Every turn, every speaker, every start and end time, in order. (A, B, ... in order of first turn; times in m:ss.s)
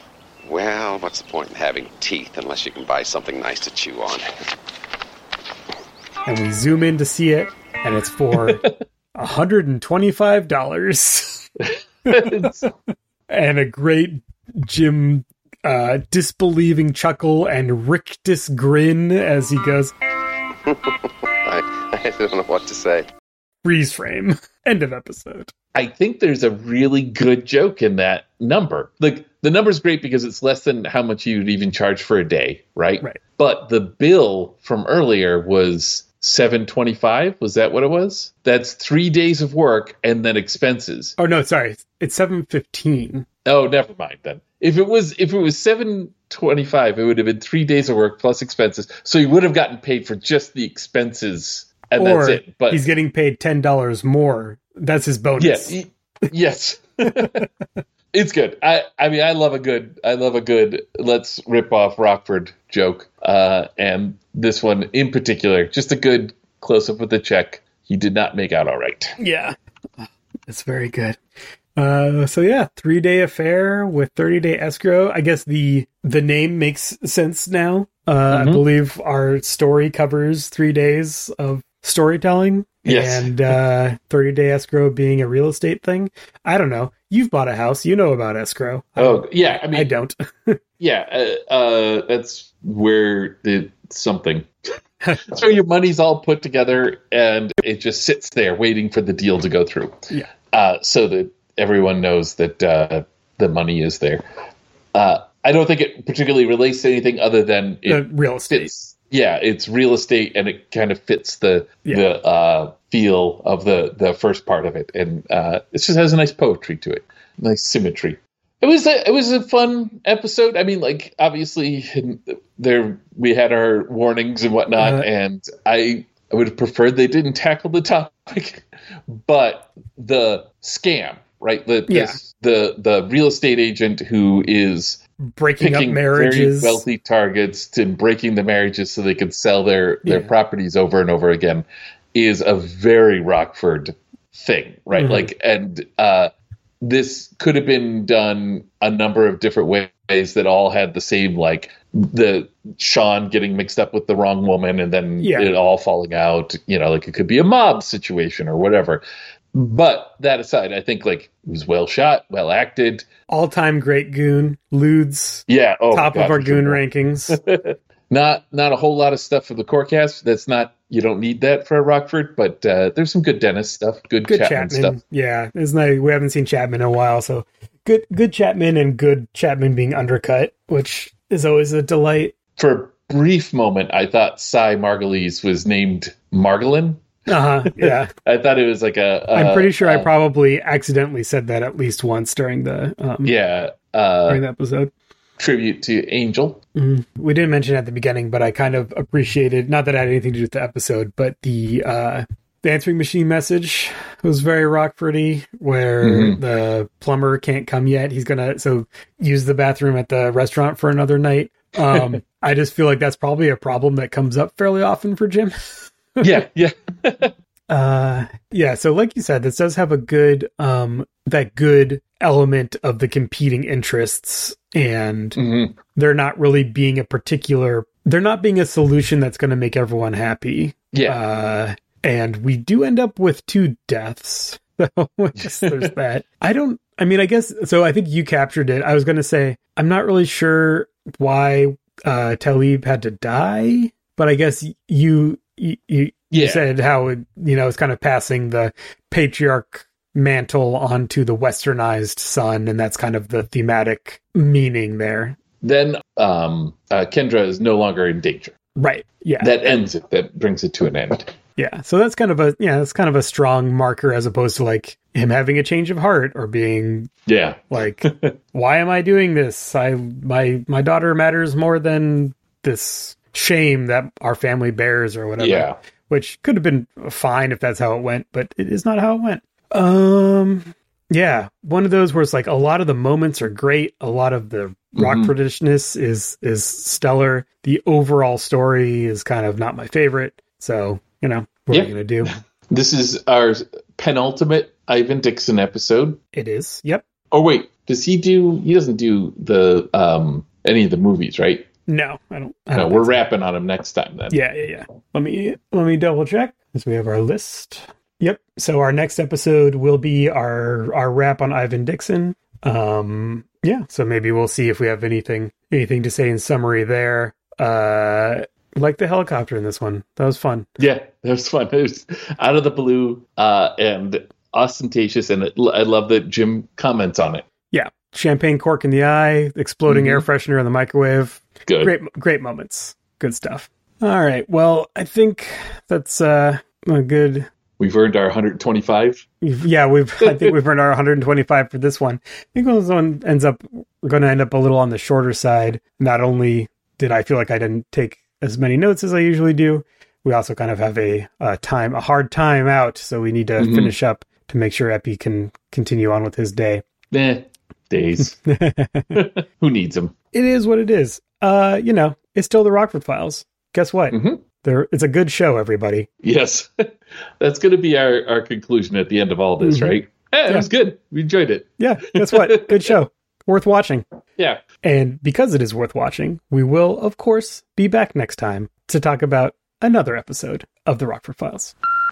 0:00.4-0:04.3 A
0:06.2-0:11.5 B
0:11.7-0:12.6 C
0:12.0-0:12.7 B
0:13.3-0:19.9 B
0:20.7-0:23.0 A
0:23.6-0:25.5 B
0:25.7-0:41.1 C
0:41.2-0:43.2 B
0:43.4-0:52.9 C
0:52.0-0:55.8 B
0:55.4-0:57.5 C
0:57.1-0:57.4 B
0:58.1-1:09.2 C
1:09.2-1:11.2 B
1:11.8-1:30.6 B
1:18.3-1:18.6 C
1:22.8-1:23.6 C
1:29.0-1:29.9 C
1:30.8-1:34.5 C
1:35.2-1:44.2 C
1:44.9-2:15.0 C
1:47.9-1:48.7 B
2:04.8-2:05.0 B
2:11.9-2:12.2 B
2:15.2-2:16.8 B
2:15.6-2:43.0 C
2:20.0-2:20.3 B
2:25.0-2:25.3 B
2:35.2-2:35.5 B
2:43.3-2:47.4 B
2:45.5-2:55.0 C
2:54.3-3:02.3 B
3:02.6-3:07.0 C
3:07.3-3:08.1 B
3:07.6-3:10.1 C
3:09.3-3:13.3 B
3:13.2-3:14.4 C
3:14.3-3:14.9 B
3:15.4-3:16.6 C
3:16.8-3:36.3 B
3:26.0-3:26.4 C
3:36.2-3:37.3 C
3:37.7-3:45.4 B
3:45.3-3:45.8 C
3:45.9-4:15.4 B
3:50.9-3:51.2 C
3:55.4-3:55.9 C
4:06.3-4:06.6 C
4:15.6-4:18.6 C
4:18.8-4:19.6 B
4:19.4-4:21.3 C
4:21.6-4:27.1 B
4:27.3-4:28.3 C
4:27.7-4:52.3 B
4:35.4-4:35.8 C
4:45.0-4:45.3 C
4:51.7-4:56.2 C
4:56.3-4:57.0 B
4:57.3-5:01.7 C
5:01.9-5:03.2 B
5:02.7-5:04.4 C
5:04.3-5:20.7 B
5:20.8-5:27.4 C
5:27.7-5:37.5 B
5:29.9-5:30.2 C
5:31.6-5:31.9 C
5:37.8-5:39.2 C
5:39.4-5:56.8 B
5:40.2-5:40.5 C
5:53.6-5:53.9 C
5:57.1-5:58.4 C
5:58.2-5:59.2 B
5:59.1-6:00.1 C
6:00.3-6:06.1 B
6:04.1-6:04.4 C
6:06.2-6:06.9 C
6:07.4-6:12.9 C
6:09.6-6:09.9 B
6:11.8-6:14.0 B
6:14.8-6:21.7 B